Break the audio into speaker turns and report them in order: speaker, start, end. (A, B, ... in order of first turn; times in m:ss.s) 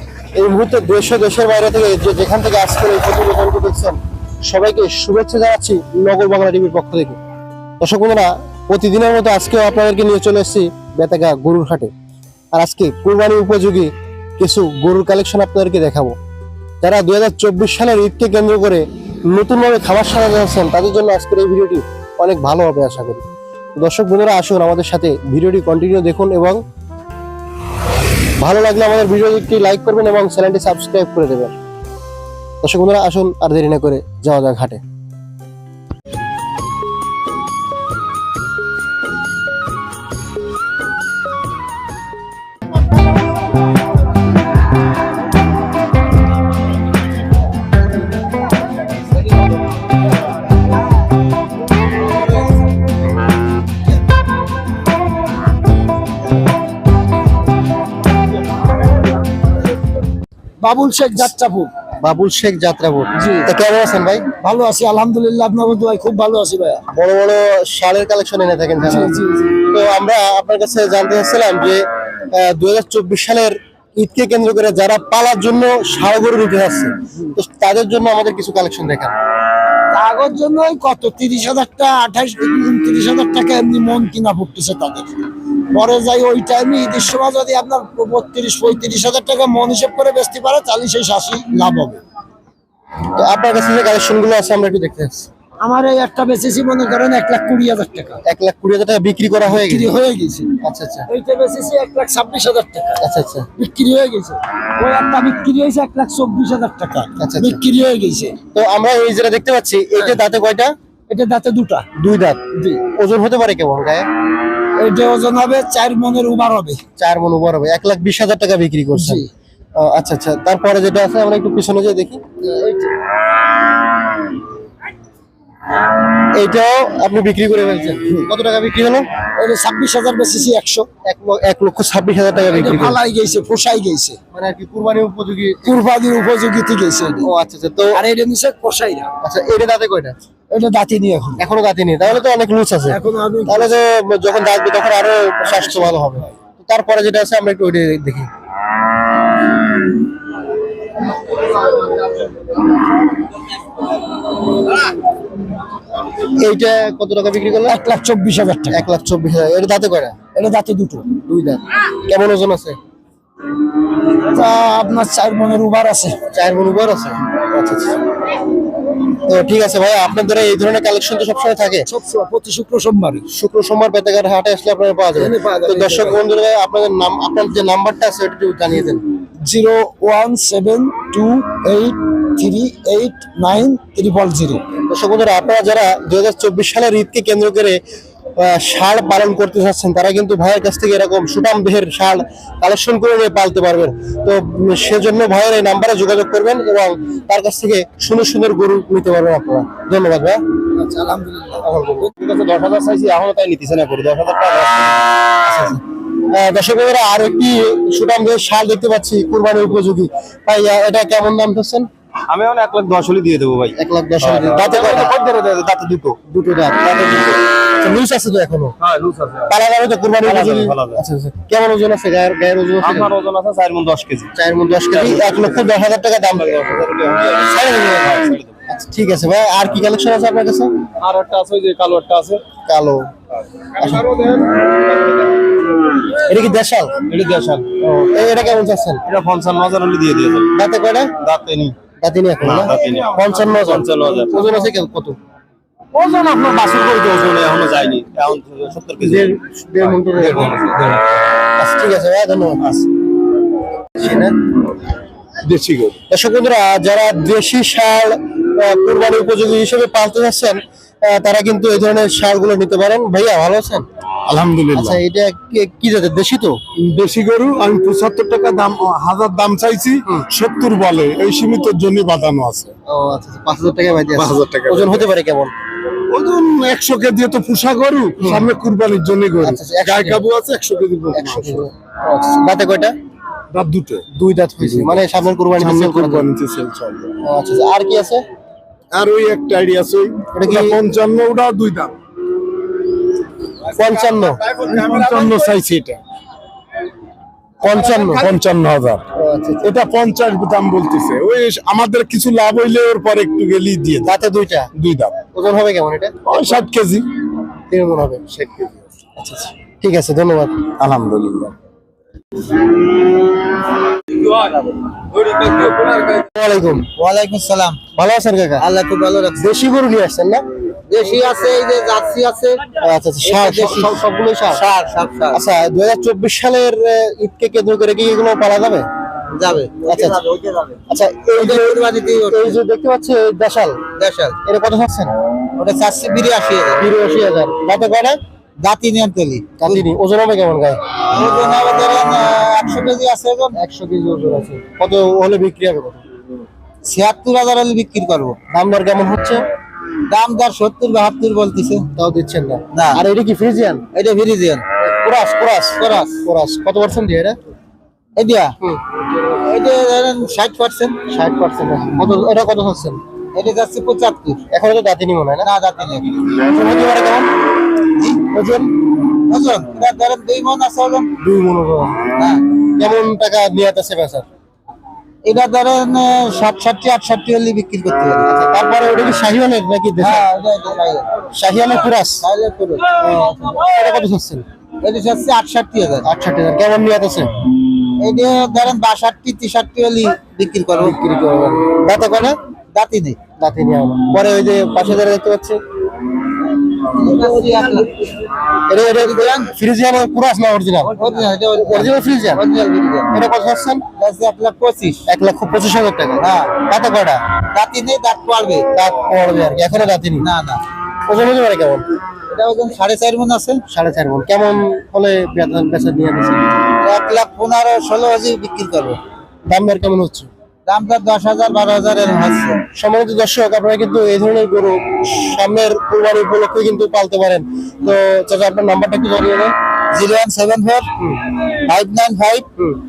0:00.3-0:07.2 A
0:07.8-0:11.9 A
0:12.5-0:16.2 A
0:16.8-0:23.2 A
0:23.8-0:26.6 A
0:28.4-0:31.5 A
0:32.6-0:34.8 A
1:00.6-1:01.7 B
1:02.0-1:04.2 A
1:03.2-1:03.5 B
1:04.4-1:06.8 B
1:06.9-1:19.1 A
1:08.8-1:09.6 B
1:19.9-1:25.2 B
1:25.7-1:32.0 B
1:33.1-1:35.3 A
1:35.6-1:38.2 B
1:38.2-1:39.9 A
1:39.5-1:40.5 B
1:40.6-1:41.1 A
1:41.1-1:43.0 B
1:43.0-1:43.5 A
1:43.6-1:48.4 B
1:47.2-1:47.6 A
1:48.5-1:50.7 A
1:51.1-1:51.9 B
1:52.0-1:54.0 A
1:54.8-1:56.8 B
1:57.0-1:59.2 A
1:59.0-1:59.3 B
1:59.8-2:02.2 A
2:02.4-2:02.9 B
2:06.3-2:09.1 A
2:09.3-2:10.9 B
2:11.0-2:13.0 A
2:12.5-2:14.2 B
2:14.3-2:15.7 A
2:15.6-2:17.3 B
2:17.2-2:18.0 A
2:17.9-2:19.1 B
2:19.2-2:20.2 A
2:20.5-2:21.4 B
2:21.4-2:28.3 A
2:22.9-2:23.7 B
2:36.2-2:37.8 A
2:37.7-2:38.8 B
2:38.7-2:40.2 A
2:40.3-2:41.1 B
2:41.2-2:42.8 A
2:44.2-2:46.2 B
2:46.3-2:48.0 A
2:49.2-2:51.9 A
2:51.8-2:53.2 B
2:53.3-2:59.0 A
2:55.1-2:56.2 B
2:59.4-3:04.6 B
3:04.9-3:07.8 A
3:08.4-3:20.4 A
3:20.8-3:21.6 B
3:21.6-3:22.1 A
3:22.2-3:25.1 C
3:25.4-3:31.9 A
3:32.3-3:36.2 C
3:33.8-3:35.2 A
3:36.3-3:38.7 A
3:38.8-3:39.5 C
3:39.5-3:43.1 A
3:40.2-3:41.0 C
3:42.8-3:44.3 C
3:44.3-3:46.6 A
3:44.9-3:45.7 C
3:46.3-3:48.5 C
3:47.5-3:48.1 A
3:48.7-3:50.7 A
3:51.0-3:52.4 C
3:52.6-3:53.1 A
3:53.8-3:54.0 A
3:53.8-3:55.5 C
3:56.2-3:56.9 A
3:57.0-3:57.7 C
3:57.8-3:59.0 A
3:59.0-4:00.5 C
4:00.5-4:01.1 A
4:01.2-4:01.8 C
4:02.0-4:05.2 A
4:02.4-4:04.4 C
4:05.9-4:09.3 C
4:09.0-4:10.6 A
4:09.8-4:11.1 C
4:11.6-4:12.6 A
4:12.6-4:12.9 C
4:14.0-4:14.3 A
4:15.4-4:16.0 D
4:16.1-4:23.8 A
4:24.3-4:25.0 D
4:24.7-4:26.6 A
4:26.8-4:32.7 D
4:32.9-4:35.5 A
4:34.2-4:35.0 D
4:36.1-4:41.6 D
4:38.2-4:38.5 A
4:39.4-4:40.2 A
4:41.1-4:42.9 A
4:43.5-4:44.0 D
4:44.1-4:46.3 A
4:44.6-4:44.9 D
4:45.5-4:47.1 D
4:47.2-4:48.2 A
4:48.9-4:51.9 D
4:50.3-4:50.8 A
4:53.7-4:54.4 A
4:54.5-4:56.0 D
4:57.6-4:58.4 A
4:57.6-4:59.0 D
4:59.2-4:59.7 A
4:59.6-5:04.1 D
5:04.0-5:04.7 A
5:04.8-5:05.2 D
5:05.2-5:06.5 A
5:06.2-5:07.0 D
5:07.7-5:08.2 A
5:08.3-5:08.8 D
5:09.2-5:10.7 A
5:10.8-5:11.5 D
5:15.2-5:16.0 C
5:16.1-5:16.8 A
5:17.0-5:17.8 E
5:18.0-5:18.6 A
5:18.6-5:19.4 E
5:19.4-5:20.4 A
5:20.9-5:22.6 E
5:22.8-5:24.6 A
5:23.2-5:25.4 E
5:25.3-5:28.8 A
5:29.3-5:30.8 E
5:29.8-5:30.2 A
5:30.9-5:33.8 A
5:31.4-5:32.6 E
5:34.0-5:34.4 E
5:34.4-5:35.1 A
5:35.6-5:36.8 E
5:36.8-5:38.2 A
5:38.6-5:39.8 E
5:39.6-5:40.8 A
5:41.1-5:43.6 E
5:43.5-5:46.0 A
5:46.8-5:48.4 E
5:48.5-5:49.4 A
5:50.1-5:51.9 E
5:51.9-5:53.8 A
5:52.7-5:53.0 E
5:53.9-5:54.6 E
5:54.8-5:57.4 A
5:55.8-5:56.2 E
5:58.2-5:58.5 E
5:59.3-6:01.0 E
6:01.1-6:03.0 A
6:03.3-6:04.4 E
6:04.5-6:05.5 A
6:05.4-6:06.1 E
6:06.2-6:07.3 A
6:08.2-6:08.7 A
6:09.3-6:11.1 E
6:11.2-6:12.0 A
6:12.2-6:12.4 E
6:12.8-6:14.2 A
6:15.2-6:18.2 E
6:18.2-6:20.3 A
6:20.0-6:21.1 E
6:21.3-6:22.2 A
6:22.2-6:23.6 E
6:23.3-6:24.4 A
6:24.8-6:26.1 E
6:26.0-6:27.3 A
6:28.0-6:30.9 E
6:30.8-6:32.4 A
6:32.7-6:33.2 E
6:33.4-6:35.6 A
6:36.9-6:38.0 E
6:38.7-6:40.9 A
6:38.8-6:39.5 E
6:40.9-6:43.1 E
6:41.5-6:42.4 A
6:43.1-6:43.8 A
6:44.0-6:45.0 E
6:45.1-6:47.2 A
6:46.2-6:46.5 E
6:47.5-6:48.6 E
6:48.7-6:50.2 A
6:49.7-6:50.6 E
6:51.1-6:51.8 A
6:52.3-6:53.6 E
6:53.7-6:56.5 A
6:56.8-6:59.0 E
6:59.5-7:00.3 A
7:00.6-7:02.6 E
7:02.7-7:09.5 A
7:09.9-7:10.9 E
7:11.6-7:12.5 E